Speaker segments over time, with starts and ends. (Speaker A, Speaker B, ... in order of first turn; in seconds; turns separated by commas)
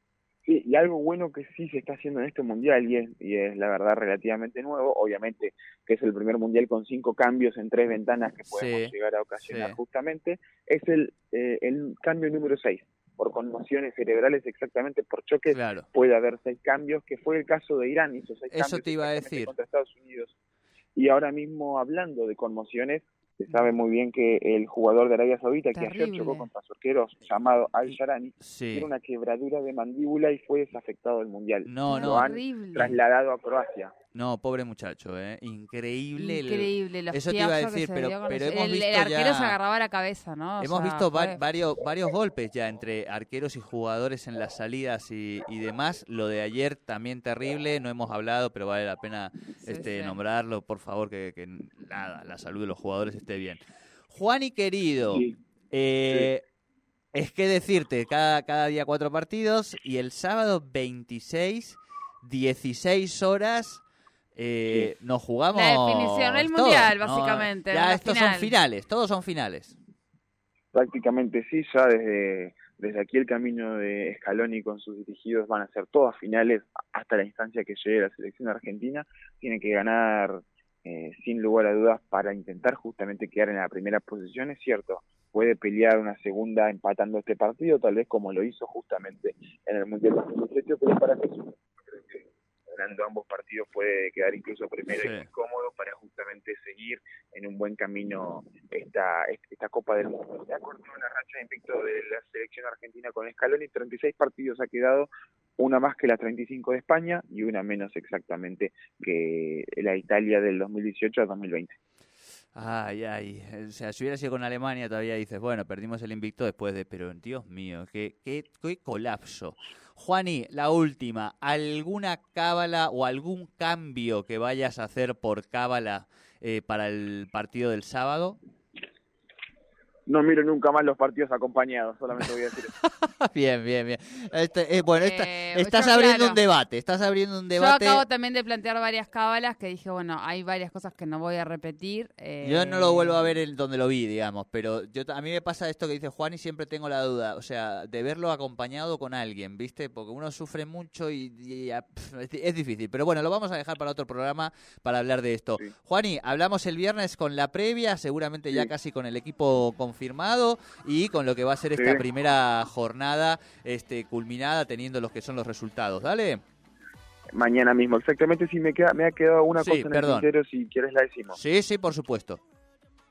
Speaker A: 0.5-20.3, Speaker B: 8.5-9.8, Speaker B: 15.5-15.9, Speaker B: 18.5-19.5, Speaker A: 20.9-33.9, Speaker C: 25.7-26.5, Speaker B: 27.8-28.9, Speaker B: 31.6-32.3, Speaker C: 31.9-32.9, Speaker B: 34.1-39.6, Speaker C: 36.2-41.4, Speaker B: 40.6-56.4, Speaker C: 49.6-50.2, Speaker A: 55.1-55.4, Speaker B: 57.1-63.8, Speaker B: 64.3-69.8, Speaker C: 65.5-68.5, Speaker A: 70.7-111.8, Speaker B: 94.9-95.3, Speaker B: 112.5-128.4, Speaker A: 130.1-132.7, Speaker B: 132.8-138.1, Speaker C: 135.0-136.4, Speaker C: 137.6-143.4, Speaker B: 142.4-166.4, Speaker A: 161.7-162.1, Speaker A: 167.3-171.4, Speaker B: 169.6-170.3, Speaker B: 171.3-172.4